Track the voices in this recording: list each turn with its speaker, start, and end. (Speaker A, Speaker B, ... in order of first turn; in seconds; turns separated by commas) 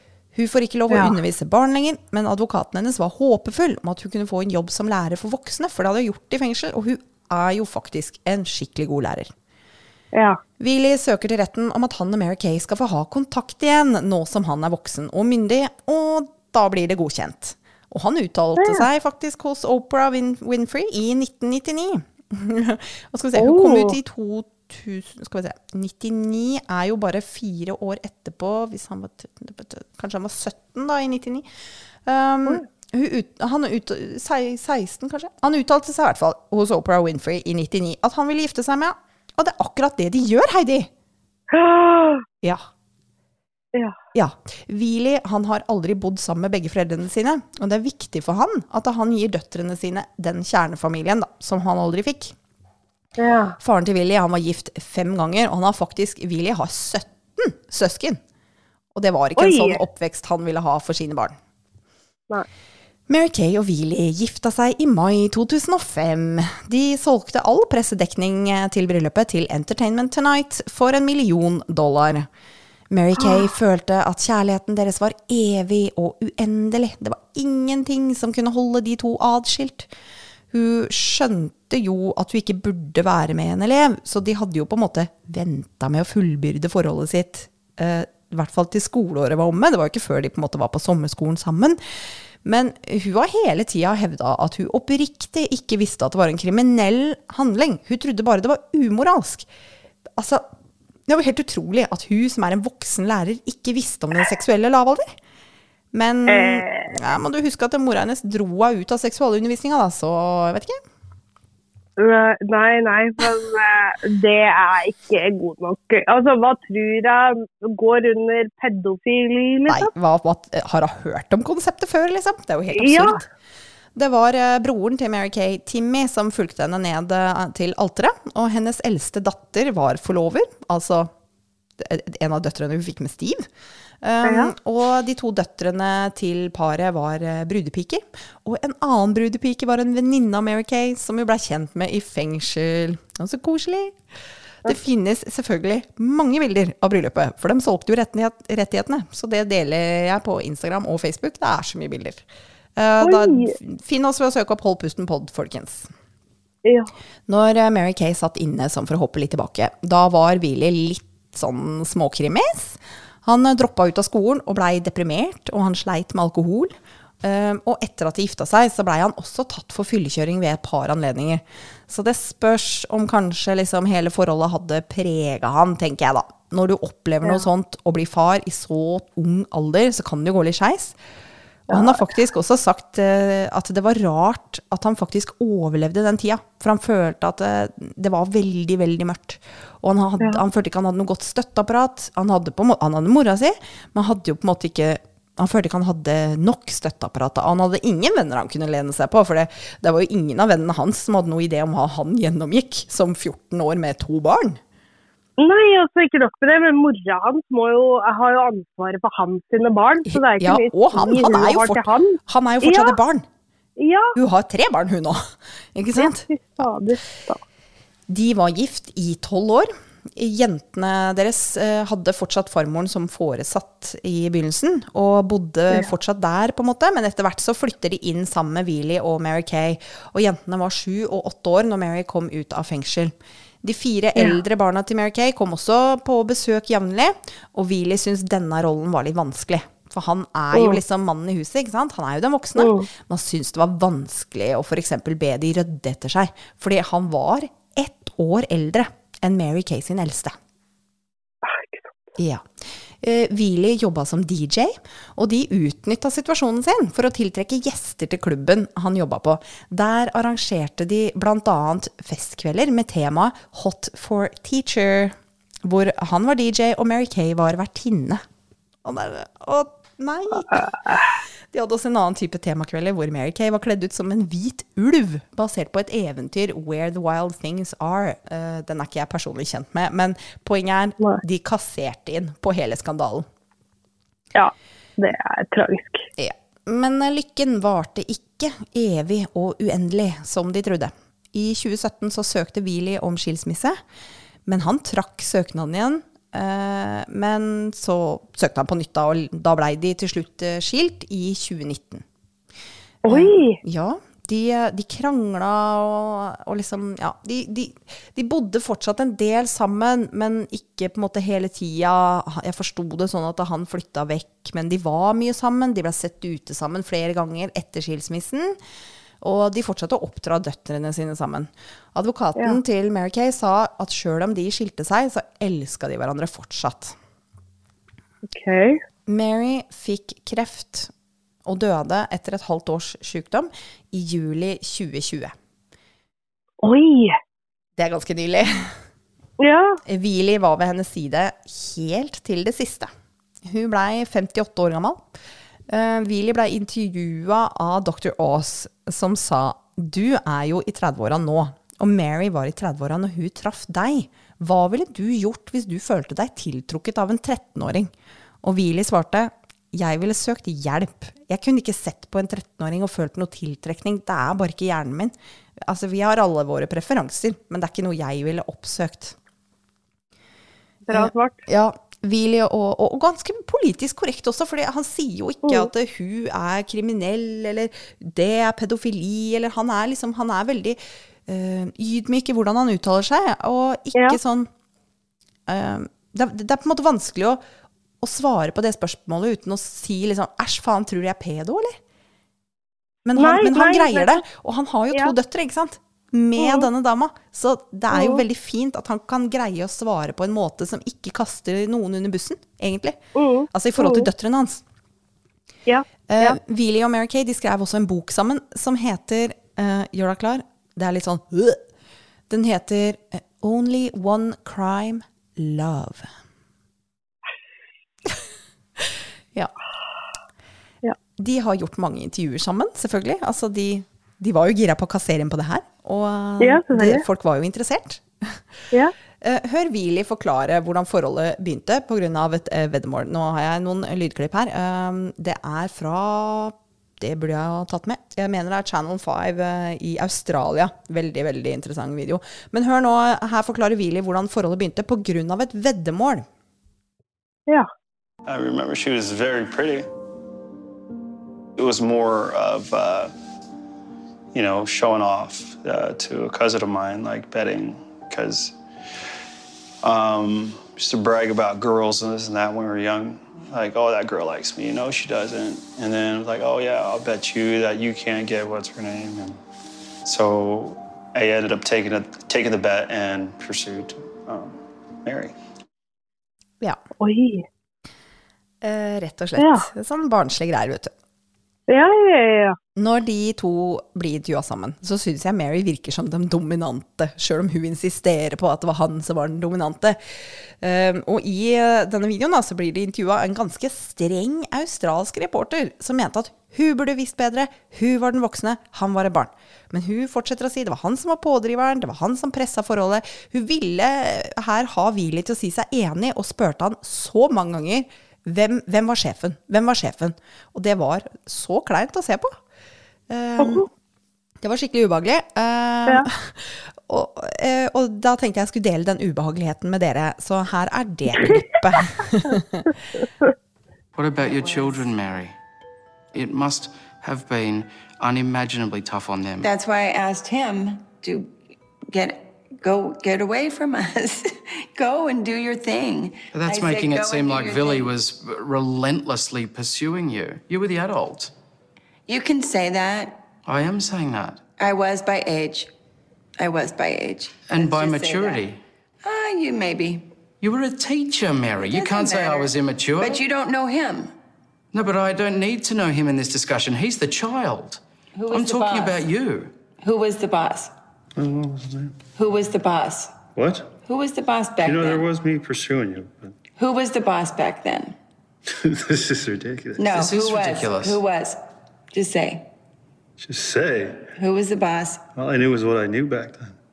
Speaker A: 0.3-9.3, Speaker B: 0.9-1.1, Speaker B: 10.1-10.4, Speaker A: 10.6-31.4, Speaker B: 18.6-18.8, Speaker B: 23.4-23.9, Speaker A: 32.0-40.9, Speaker B: 41.5-42.2, Speaker A: 44.1-52.3, Speaker B: 53.2-53.5, Speaker A: 53.6-58.2, Speaker A: 58.9-61.4, Speaker B: 59.4-59.8, Speaker A: 63.1-72.3, Speaker A: 72.9-79.9, Speaker B: 73.2-73.5, Speaker A: 80.5-91.8, Speaker A: 92.4-99.5, Speaker A: 100.2-100.5, Speaker A: 101.1-105.1, Speaker A: 105.9-110.8, Speaker B: 106.3-107.0, Speaker B: 112.0-119.9, Speaker A: 119.7-123.3, Speaker B: 122.7-123.2, Speaker A: 123.9-131.1, Speaker A: 131.8-133.4, Speaker A: 134.0-144.0, Speaker B: 134.2-134.5, Speaker A: 144.6-152.2, Speaker A: 152.8-155.9, Speaker B: 153.0-153.6, Speaker B: 156.6-156.9, Speaker A: 157.3-180.9, Speaker A: 181.7-204.6, Speaker B: 181.7-182.0, Speaker B: 205.4-213.0, Speaker A: 210.1-213.2, Speaker B: 213.8-214.1, Speaker A: 214.1-216.3, Speaker B: 216.0-217.4, Speaker A: 218.1-250.3, Speaker B: 240.5-240.8, Speaker B: 242.6-242.9, Speaker B: 251.4-252.0, Speaker A: 252.2-268.2, Speaker A: 268.8-270.7, Speaker B: 270.5-271.2, Speaker A: 271.5-283.2, Speaker B: 284.3-286.1, Speaker A: 286.2-293.8, Speaker A: 294.4-302.0, Speaker B: 303.0-303.6, Speaker A: 303.1-318.6, Speaker A: 319.2-326.9, Speaker B: 328.3-328.8, Speaker A: 329.1-330.9, Speaker A: 331.4-335.3, Speaker B: 336.6-337.2, Speaker A: 337.8-338.7, Speaker B: 339.4-339.8, Speaker A: 339.9-342.9, Speaker A: 343.4-345.0, Speaker A: 345.7-357.9, Speaker A: 358.4-369.1, Speaker B: 370.9-371.4, Speaker A: 370.9-384.5, Speaker B: 375.4-375.7, Speaker A: 385.5-387.4, Speaker A: 388.0-391.8, Speaker A: 393.0-403.0, Speaker B: 393.1-394.2, Speaker B: 396.4-396.6, Speaker B: 397.9-398.2, Speaker B: 403.1-404.1, Speaker A: 403.5-404.6, Speaker B: 405.7-406.4, Speaker A: 406.1-411.6, Speaker A: 412.3-416.1, Speaker A: 418.8-419.5, Speaker A: 421.2-428.4, Speaker B: 426.4-427.0, Speaker A: 429.2-446.2, Speaker B: 477.0-477.4, Speaker A: 478.6-480.9, Speaker B: 479.4-479.6, Speaker B: 481.7-482.6, Speaker A: 482.8-512.4, Speaker A: 513.1-513.7, Speaker B: 513.4-513.6, Speaker A: 514.4-522.7, Speaker C: 523.9-525.3, Speaker D: 524.3-524.8, Speaker C: 526.1-529.5, Speaker D: 529.4-531.3, Speaker D: 531.9-537.9, Speaker C: 536.3-541.3, Speaker D: 542.1-543.2, Speaker C: 543.5-544.4, Speaker D: 544.6-545.7, Speaker D: 546.4-548.4, Speaker C: 547.5-548.6, Speaker D: 549.0-550.1, Speaker C: 550.4-553.2, Speaker D: 551.6-554.1, Speaker C: 554.7-559.5, Speaker D: 558.1-559.0, Speaker D: 559.8-560.7, Speaker E: 561.1-562.0, Speaker D: 562.1-563.2, Speaker E: 563.4-563.7, Speaker D: 563.8-565.1, Speaker E: 564.6-566.3, Speaker D: 566.5-568.0, Speaker E: 568.6-570.0, Speaker D: 569.8-571.4, Speaker C: 569.9-571.0, Speaker D: 571.9-572.5, Speaker E: 573.2-574.1, Speaker D: 574.1-575.0, Speaker E: 575.1-576.6